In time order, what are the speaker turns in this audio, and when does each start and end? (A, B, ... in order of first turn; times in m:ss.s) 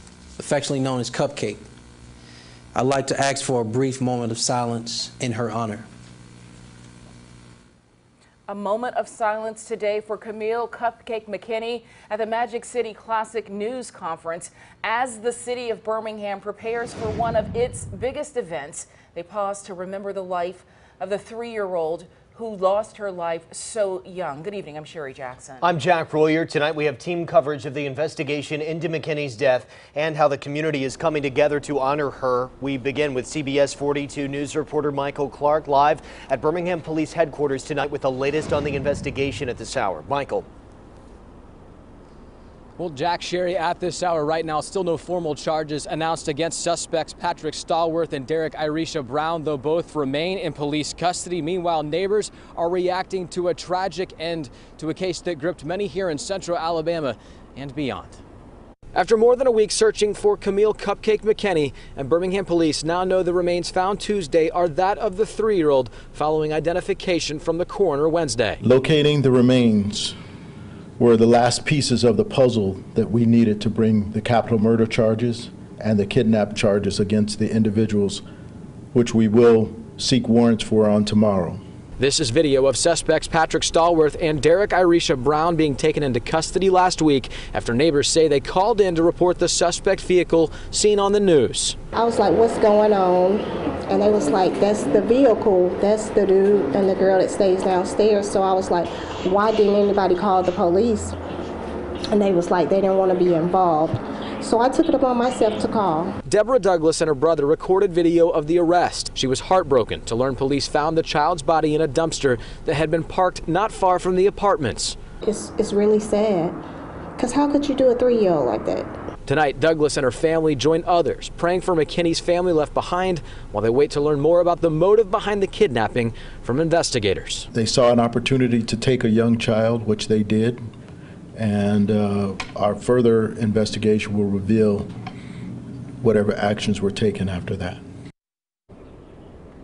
0:00.4-0:01.7 A
0:02.8-0:05.9 A
0:08.5-0:25.7 B
0:25.6-0:40.4 C
0:42.8-0:58.2 D
0:58.9-1:08.6 D
1:08.6-1:10.1 E
1:11.0-1:18.2 E
1:18.9-1:21.6 E
1:22.0-1:31.8 D
1:31.9-1:41.1 F
1:42.1-1:46.1 F
1:46.2-1:55.0 D
1:55.2-1:56.6 F
1:57.2-1:58.9 F
1:59.2-2:07.5 D
2:07.5-2:10.6 E
2:11.4-2:14.9 E
2:16.0-2:17.8 E